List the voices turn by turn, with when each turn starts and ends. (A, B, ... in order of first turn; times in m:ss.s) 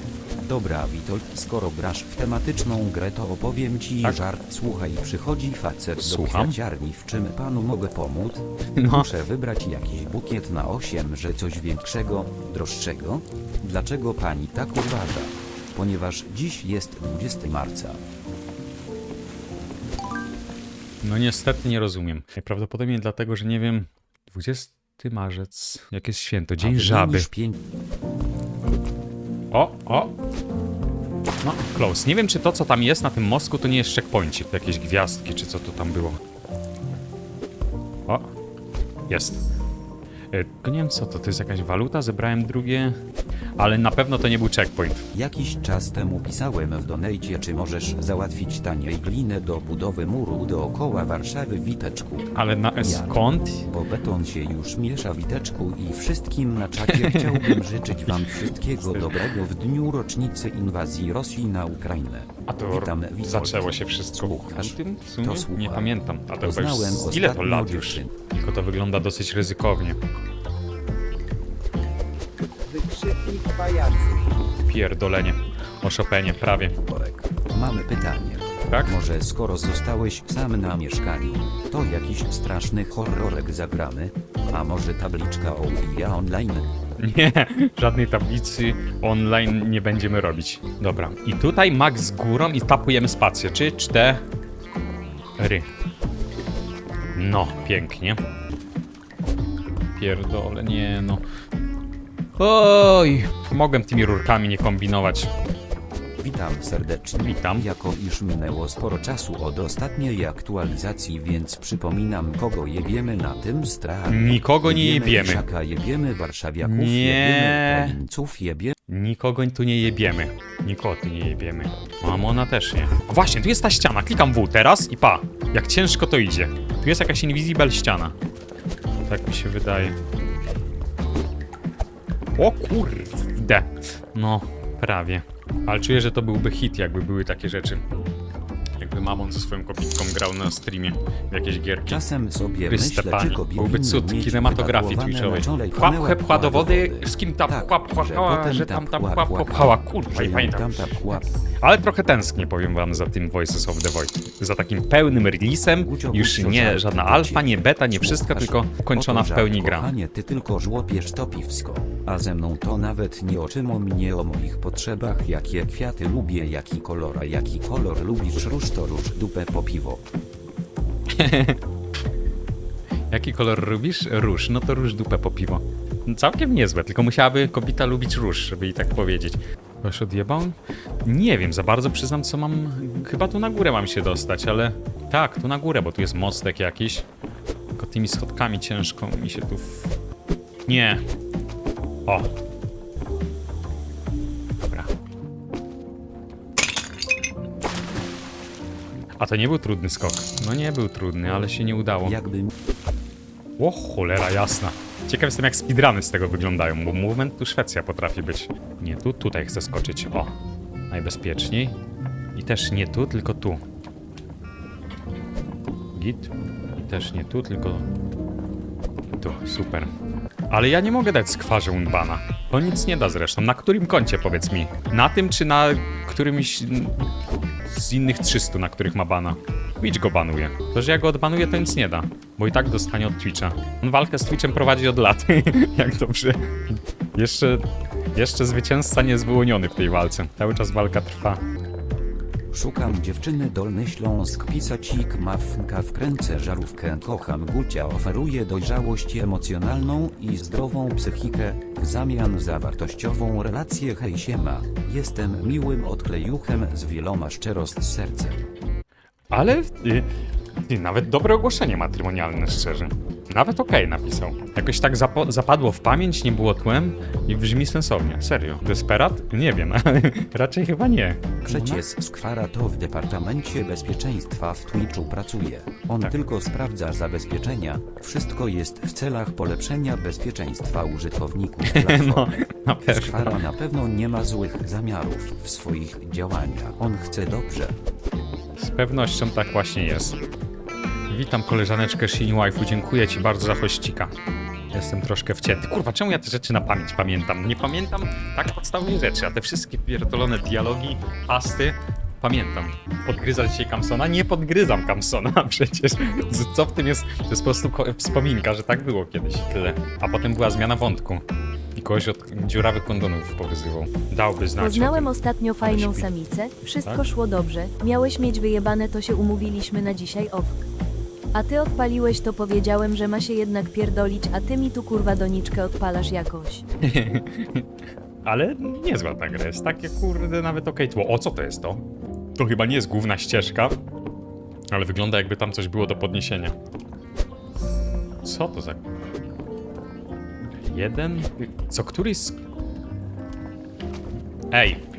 0:00.4-0:18.0 A
0:06.0-0:06.6 B
0:08.8-0:09.1 B
0:21.0-0:27.3 B
0:26.6-0:27.6 A
0:29.5-0:30.1 B
0:31.4-0:36.2 B
0:39.1-0:39.4 B
0:40.3-0:43.0 B
0:43.6-0:45.1 B
0:45.1-1:08.1 A
0:52.3-0:53.7 B
0:56.9-0:59.2 B
1:02.5-1:10.0 B
1:14.6-1:16.8 B
1:16.8-1:26.7 A
1:18.7-1:19.0 B
1:27.0-1:34.2 B
1:35.4-1:35.7 B
1:37.1-1:38.2 B
1:40.0-1:41.2 B
1:42.4-1:45.3 B
1:46.2-1:58.8 A
1:47.2-1:47.7 B
1:54.1-1:55.5 B
1:56.6-1:58.0 B
1:58.9-2:08.1 B
2:09.1-2:10.0 B
2:12.4-2:17.8 B
2:18.8-2:22.0 B
2:21.9-2:31.3 A
2:22.7-2:39.9 B
2:35.8-2:50.0 A
2:51.1-2:51.6 B
2:53.1-3:07.1 B
3:07.8-3:09.9 B
3:10.7-3:11.0 B
3:14.6-3:14.9 B
3:19.2-3:22.2 B
3:22.0-3:22.5 A
3:23.6-3:30.3 B
3:30.9-3:31.8 B
3:32.4-3:33.6 B
3:35.9-3:37.9 B
3:39.2-3:39.9 B
3:40.5-3:47.0 B
3:47.7-4:01.4 B
4:02.5-4:18.4 A
4:19.3-4:20.1 B
4:20.7-4:31.9 B
4:31.4-4:42.3 A
4:41.6-4:43.4 B
4:42.9-4:47.8 A
4:48.6-4:50.2 B
4:51.1-4:54.1 B
4:54.7-5:11.2 B
5:11.8-5:15.1 B
5:14.6-5:20.6 C
5:15.6-5:16.1 B
5:21.3-5:26.6 C
5:26.8-5:27.6 B
5:28.2-5:31.8 B
5:32.4-5:33.8 B
5:34.7-5:36.6 B
5:38.2-5:38.8 B
5:40.6-5:42.4 B
5:44.5-5:44.8 B